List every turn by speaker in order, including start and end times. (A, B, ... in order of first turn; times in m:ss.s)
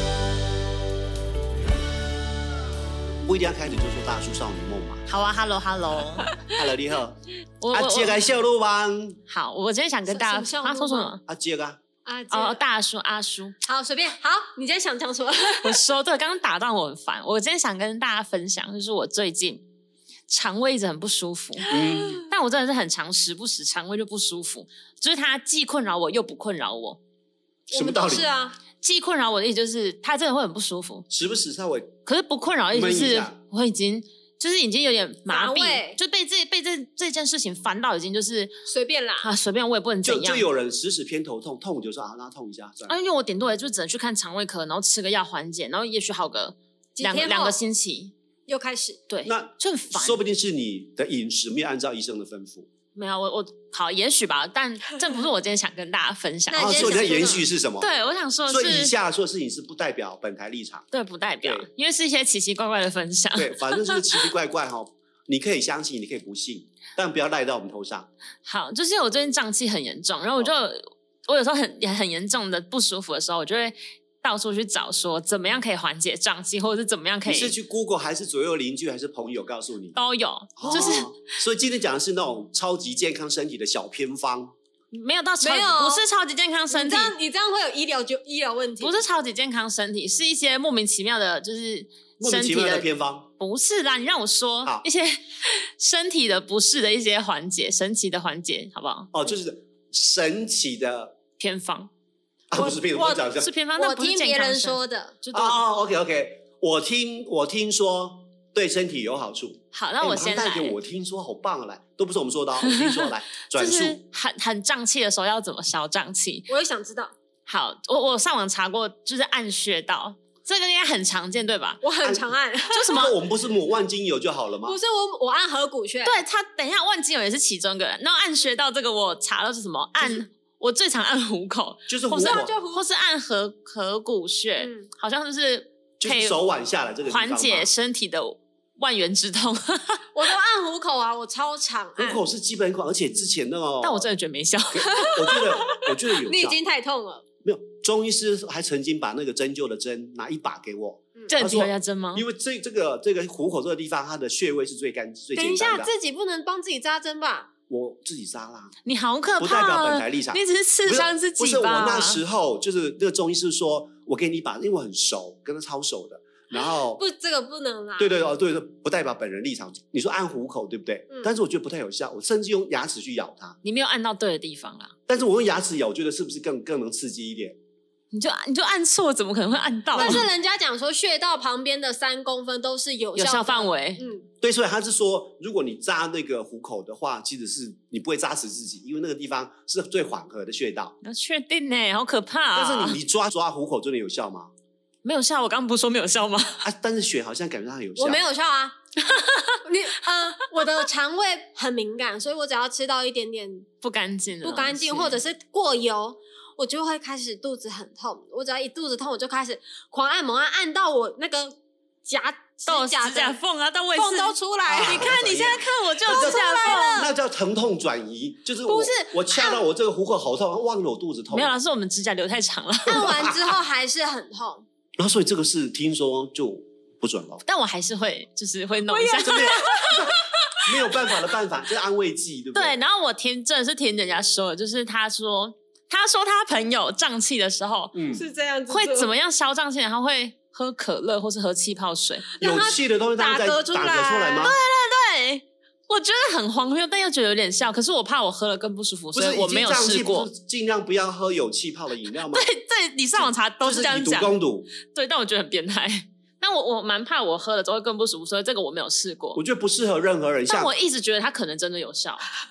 0:03.2-0:05.0 A
0:05.1-0:06.4 B
0:06.5-0:07.2 A
0:07.6-0:08.2 B
0:07.7-0:09.2 A
0:09.3-0:11.2 B
0:10.1-0:11.2 C
0:11.3-0:11.8 A
0:12.0-0:12.6 C
0:12.3-0:13.5 B
0:13.6-0:15.8 C
0:15.6-0:19.6 B
0:20.3-0:27.0 B
0:21.6-0:22.0 C
0:21.7-0:22.2 A
0:27.7-0:28.3 A
0:27.7-0:28.6 C
0:28.8-0:31.0 B
0:31.1-0:31.9 A
0:32.0-0:38.5 B
0:32.7-0:33.4 A
0:35.3-0:36.0 C
0:38.6-0:39.3 C
0:39.2-0:40.5 B
0:40.0-0:43.0 A
0:42.9-0:48.1 B
0:47.0-0:47.6 C
0:48.5-0:49.0 C
0:49.1-0:50.2 B
0:49.2-0:52.7 A
0:52.9-0:57.3 B
0:56.5-0:57.5 C
0:56.5-0:57.9 A
0:57.8-0:58.9 B
0:58.5-1:00.9 A
1:00.9-1:04.1 B
1:01.4-1:01.7 A
1:03.4-1:08.1 A
1:08.4-1:17.5 B
1:17.2-1:20.0 A
1:19.9-1:21.1 B
1:20.6-1:24.5 A
1:24.9-1:27.1 B
1:25.4-1:26.0 C
1:26.7-1:29.0 C
1:28.8-1:32.9 B
1:32.2-1:33.3 A
1:33.4-1:39.1 B
1:39.1-1:41.2 A
1:41.4-1:41.9 B
1:42.5-1:43.5 A
1:42.5-1:45.2 C
1:43.3-1:45.6 B
1:45.3-1:54.0 A
1:49.7-1:50.8 B
1:52.6-1:56.5 B
1:56.5-1:57.1 C
1:57.5-2:01.8 B
2:01.8-2:03.1 C
2:02.0-2:02.3 A
2:02.7-2:03.2 B
2:02.9-2:04.8 A
2:04.6-2:06.2 C
2:06.0-2:16.4 B
2:11.9-2:12.5 A
2:12.1-2:12.8 C
2:14.6-2:14.9 C
2:16.0-2:17.7 A
2:17.0-2:20.0 B
2:20.1-2:22.2 C
2:22.0-2:24.1 A
2:23.8-2:25.1 B
2:24.7-2:26.6 A
2:24.8-2:27.2 C
2:27.4-2:35.9 A
2:31.3-2:32.2 B
2:35.4-2:37.5 C
2:37.7-2:38.7 A
2:38.8-2:42.2 B
2:39.4-2:47.0 A
2:46.5-2:48.2 C
2:48.0-2:53.6 A
2:53.6-2:54.9 B
2:55.1-2:57.6 A
2:58.1-3:00.2 B
2:59.9-3:04.3 C
3:00.0-3:00.2 A
3:03.2-3:04.0 B
3:04.4-3:10.9 A
3:11.0-3:13.0 B
3:12.5-3:14.5 A
3:15.0-3:16.7 B
3:16.6-3:18.2 A
3:18.0-3:18.8 C
3:19.0-3:19.6 B
3:19.6-3:23.7 C
3:23.8-3:25.2 B
3:24.4-3:33.4 C
3:32.7-3:37.0 B
3:33.9-3:37.1 C
3:34.7-3:41.5 A
3:38.6-3:39.7 C
3:41.3-3:43.2 B
3:42.9-3:43.6 A
3:42.9-3:44.6 C
3:45.0-3:47.4 A
3:47.4-3:49.9 B
3:48.9-3:51.1 C
3:49.2-3:52.8 A
3:52.5-3:58.0 B
3:57.9-3:58.2 A
3:58.1-3:59.1 C
3:58.7-4:02.4 B
4:02.3-4:04.6 C
4:02.4-4:04.6 A
4:04.4-4:10.3 B
4:09.1-4:12.5 A
4:12.1-4:19.4 B
4:13.6-4:14.7 A
4:19.3-4:20.7 A
4:20.5-4:22.3 B